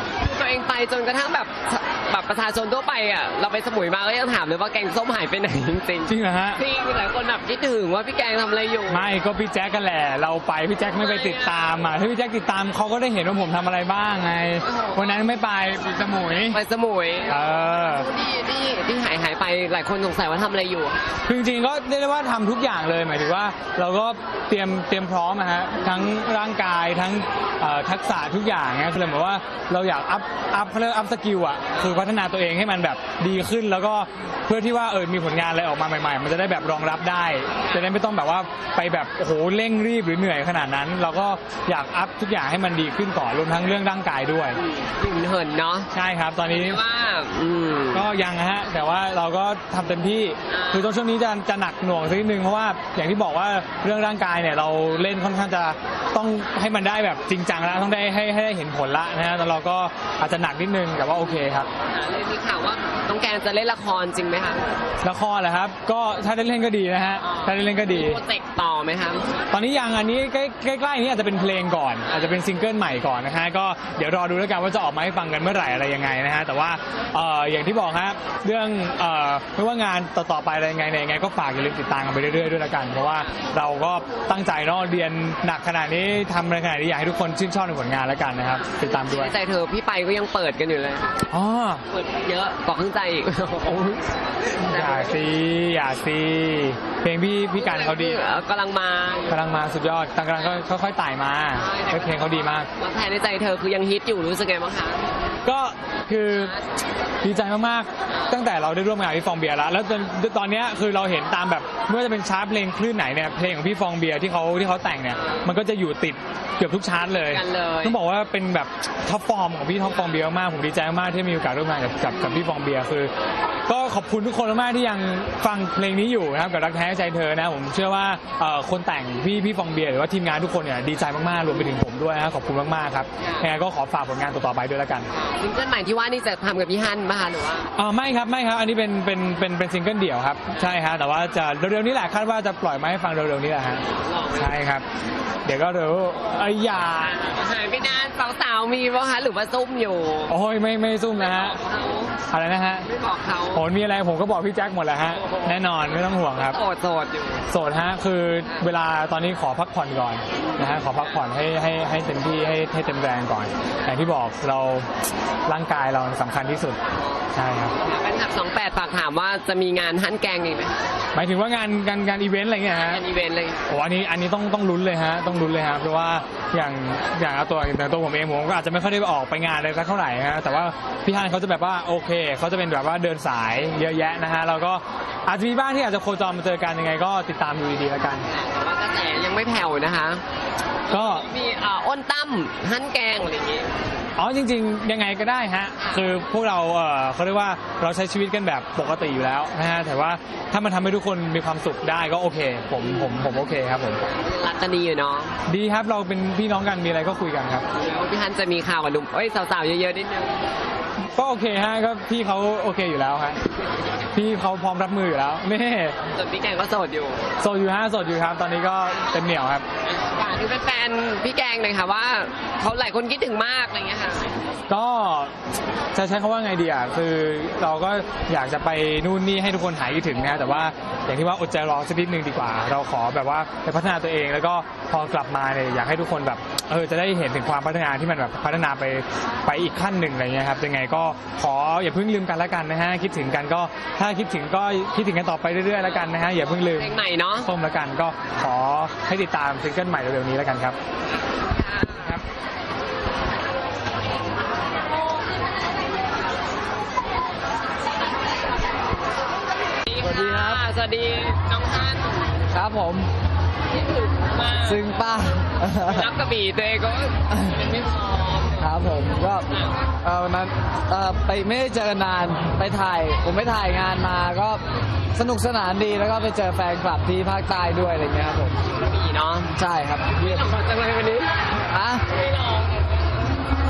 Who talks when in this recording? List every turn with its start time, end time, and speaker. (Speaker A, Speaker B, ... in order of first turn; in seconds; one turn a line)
Speaker A: 0.2-9.1
Speaker B: 6.1-6.6
Speaker B: 8.9-16.6
Speaker A: 10.9-11.8
Speaker A: 14.6-15.2
Speaker A: 16.5-21.2
Speaker B: 17.3-18.1
Speaker B: 21.2-44.6
Speaker A: 44.5-45.9
Speaker B: 45.9-46.8
Speaker A: 46.4-48.1
Speaker B: 47.9-61.7
Speaker A: 50.5-50.9
Speaker A: 61.8-64.7
Speaker B: 65.0-68.2
Speaker A: 67.2-69.3
Speaker B: 69.5-89.3
Speaker A: 72.1-72.3
Speaker A: 88.6-91.1
Speaker B: 91.3-91.8
Speaker A: 91.9-95.2
Speaker B: 94.7-98.2
Speaker A: 97.5-99.4
Speaker B: 99.3-102.7
Speaker A: 100.3-100.7
Speaker A: 101.5-105.0
Speaker B: 105.4-106.5
Speaker A: 106.3-106.6
Speaker B: 107.2-123.1
Speaker A: 108.1-108.3
Speaker A: 115.1-115.5
Speaker A: 117.0-118.0
Speaker B: 123.7-135.1
Speaker A: 133.2-133.5
Speaker A: 135.1-137.7
Speaker B: 137.8-143.8
Speaker A: 144.0-144.6
Speaker B: 144.3-144.8
Speaker B: 145.4-147.1
Speaker A: 147.0-150.4
Speaker B: 150.3-151.6
Speaker A: 151.2-152.1
Speaker B: 152.3-152.8
Speaker A: 152.8-153.6
Speaker B: 153.5-156.6
Speaker A: 155.2-157.5
Speaker B: 157.5-164.9
Speaker A: 160.3-161.2
Speaker B: 165.5-166.8
Speaker A: 166.9-170.8
Speaker B: 167.3-167.8
Speaker B: 171.1-173.0
Speaker A: 172.7-173.6
Speaker B: 173.7-188.2
Speaker A: 188.2-190.2
Speaker A: 190.9-193.7
Speaker B: 190.9-191.2
Speaker B: 194.2-204.0
Speaker A: 195.8-196.1
Speaker A: 202.8-203.3
Speaker A: 204.0-205.3
Speaker B: 205.5-207.6
Speaker A: 207.7-210.4
Speaker B: 211.1-213.4
Speaker B: 214.1-215.9
Speaker A: 216.1-217.2
Speaker B: 217.4-219.6
Speaker A: 219.8-224.4
Speaker B: 224.7-225.3
Speaker B: 225.9-250.8
Speaker A: 245.8-247.5
Speaker A: 251.4-252.1
Speaker B: 251.9-252.2
Speaker A: 259.9-262.3
Speaker C: 260.0-260.6
Speaker C: 262.5-263.1
Speaker A: 263.7-264.8
Speaker C: 264.6-266.1
Speaker A: 265.8-268.7
Speaker C: 268.6-269.5
Speaker A: 269.5-269.8
Speaker C: 270.0-274.6
Speaker C: 275.1-278.6
Speaker A: 278.6-279.5
Speaker C: 279.6-280.4
Speaker A: 280.1-281.3
Speaker C: 281.7-282.0
Speaker A: 282.1-283.0